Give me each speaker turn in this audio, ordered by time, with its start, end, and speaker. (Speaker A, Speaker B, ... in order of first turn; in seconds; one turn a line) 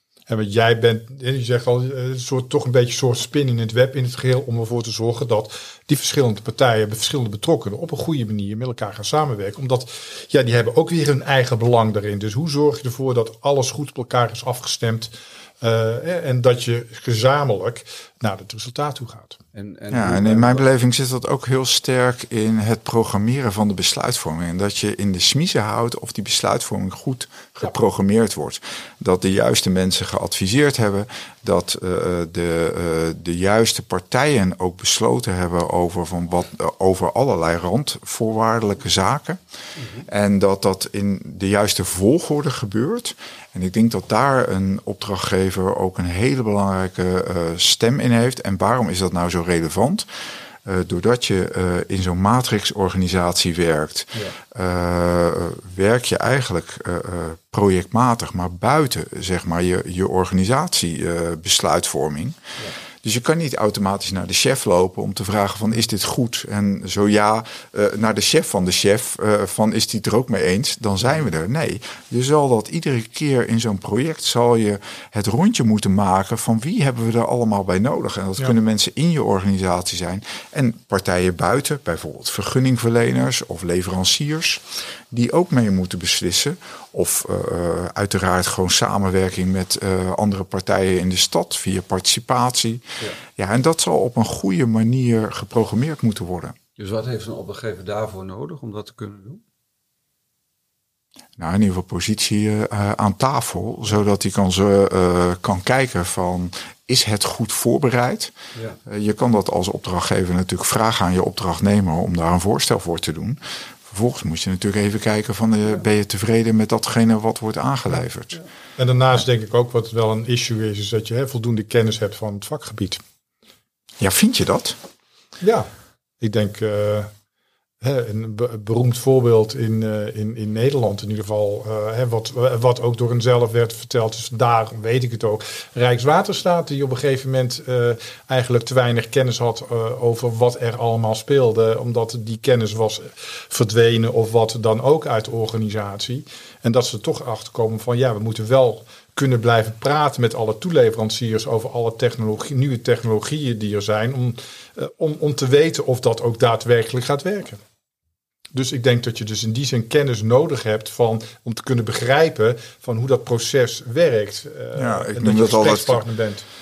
Speaker A: 0.3-19.4
Speaker B: 19.5-20.7
Speaker C: 19.9-39.4
Speaker B: 39.8-40.1
Speaker C: 40.1-50.1
Speaker C: 50.6-62.4
Speaker C: 63.0-92.8
Speaker C: 93.4-96.5
Speaker B: 96.8-99.4
Speaker C: 101.4-108.3
Speaker C: 108.9-118.4
Speaker A: 118.8-123.0
Speaker C: 124.0-124.8
Speaker A: 125.4-125.7
Speaker A: 126.2-127.1
Speaker A: 127.8-157.6
Speaker A: 158.5-166.4
Speaker C: 164.8-166.0